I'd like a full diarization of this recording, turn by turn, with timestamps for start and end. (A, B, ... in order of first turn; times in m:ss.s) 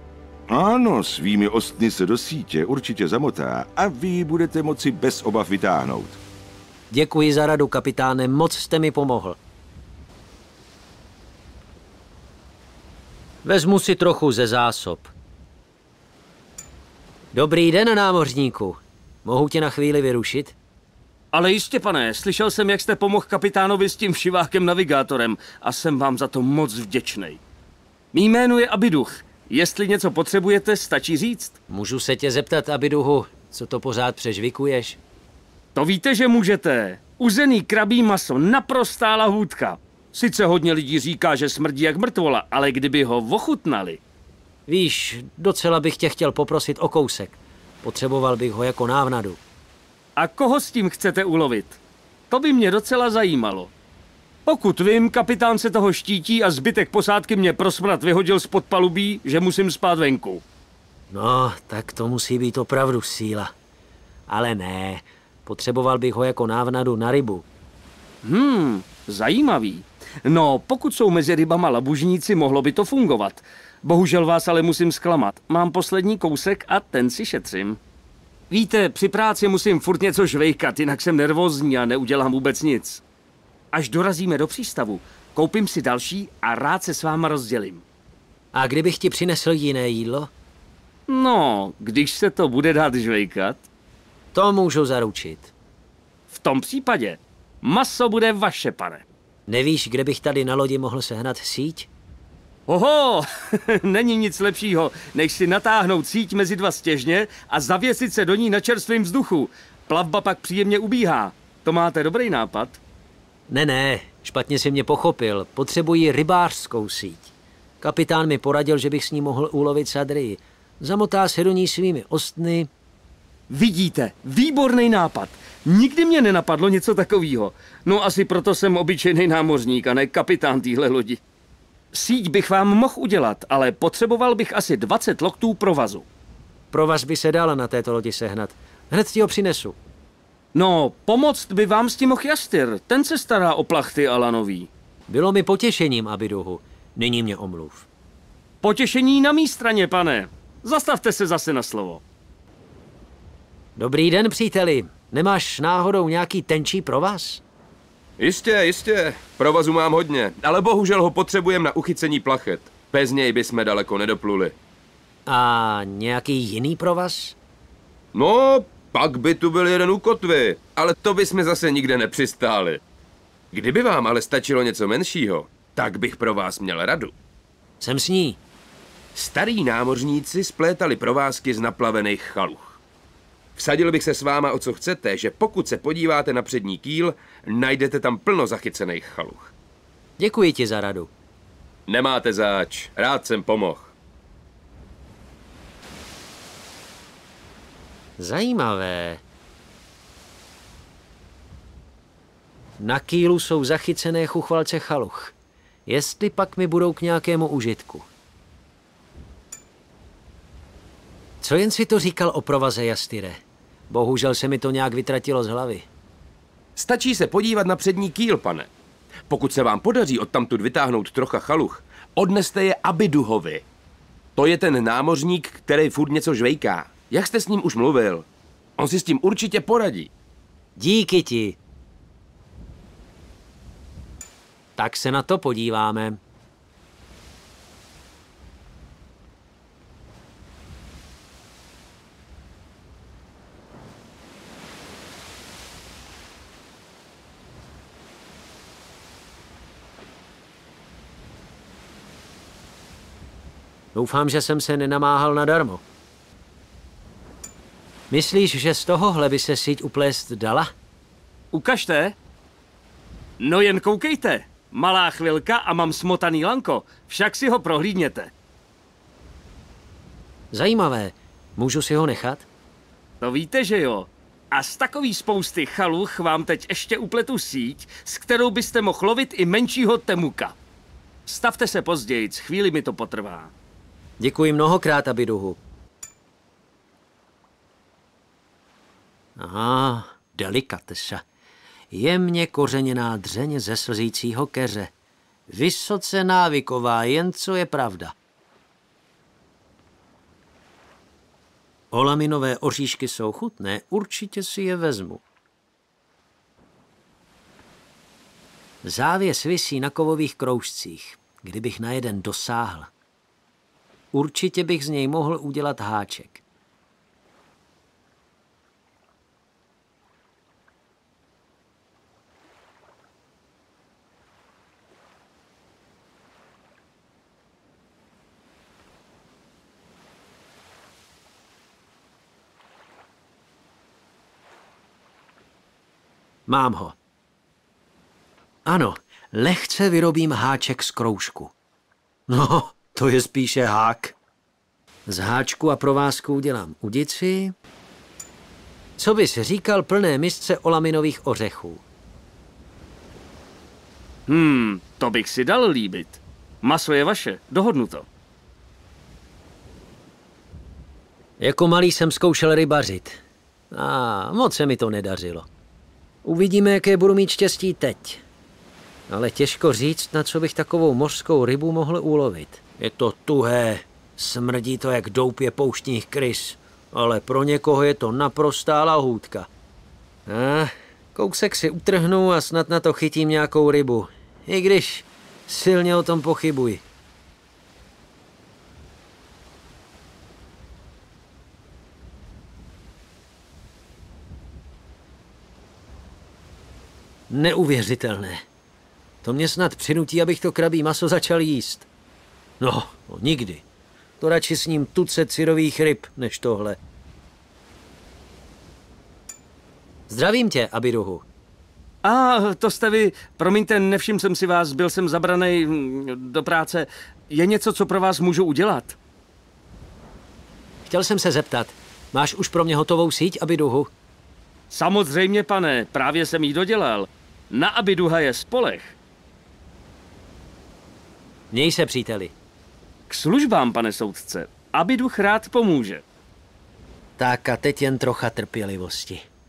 0:00.5-0:06.2 A
0:06.9-0:09.4 B
0:13.4-0:15.1 B
0:17.3-0:20.6 B
0:21.3-0:27.4 C
0:28.1-0:31.6 C
0:31.7-0:35.0 B
0:35.8-0:44.0 C
0:44.7-0:49.4 B
0:50.2-0:51.8 C
0:52.3-0:53.7 C
0:54.5-1:00.4 C
1:01.1-1:03.5 B
1:04.3-1:07.4 B
1:08.2-1:17.8 C
1:18.5-1:23.0 C
1:23.7-1:27.8 C
1:28.5-1:30.3 B
1:31.1-1:33.6 C
1:34.3-1:35.5 B
1:36.3-1:39.0 C
1:39.5-1:41.9 B
1:42.7-1:52.8 C
1:53.5-1:57.3 B
1:57.8-2:02.7 B
2:03.5-2:11.2 C
2:11.9-2:16.1 C
2:16.7-2:19.8 B
2:20.5-2:24.7 C
2:25.1-2:27.9 B
2:28.6-2:32.0 C
2:33.8-2:37.4 B
2:38.2-2:44.6 D
2:45.3-2:47.4 B
2:48.1-2:52.8 D
2:53.5-2:57.1 D
2:57.8-2:58.4 B
2:59.2-3:02.8 D
3:03.6-3:09.5 D
3:10.2-3:11.1 B
3:11.9-3:13.9 D
3:18.2-3:19.2 B
3:22.8-3:25.3 B
3:25.9-3:28.1 B
3:31.4-3:35.9 B
3:36.8-3:38.7 D
3:39.3-3:43.6 D
3:44.4-3:48.3 D
3:48.8-3:50.1 D
3:50.8-3:51.6 B
3:54.8-3:56.2 B
4:14.0-4:15.8 B
4:18.1-4:20.7 B
4:21.5-4:22.2 C
4:23.4-4:28.3 C
4:30.5-4:32.5 B
4:33.2-4:40.5 C
4:41.3-4:43.5 C
4:44.2-4:45.6 B
4:49.4-4:51.2 B
4:51.9-4:54.9 B
4:55.5-4:58.1 B
5:01.9-5:05.2 B
5:08.8-5:12.9 B
5:14.1-5:16.4 B
5:36.5-5:37.0 B
5:38.7-5:41.5 B
5:42.3-5:44.2 B
5:45.1-5:47.5 B
5:49.0-5:51.8 B
5:54.3-5:58.1 C
6:01.4-6:03.2 B
6:03.7-6:05.5 B
6:06.2-6:08.2 B
6:09.1-6:19.5 B
6:20.3-6:26.8 B
6:37.3-6:38.4 B
6:39.2-6:41.9 B
6:42.6-6:43.6 B
6:44.2-6:46.8 B
6:50.1-6:51.2 B
6:52.0-6:59.0 C
7:00.9-7:03.9 B
7:04.7-7:09.0 C
7:11.5-7:12.3 B
7:13.1-7:16.0 C
7:17.2-7:19.2 B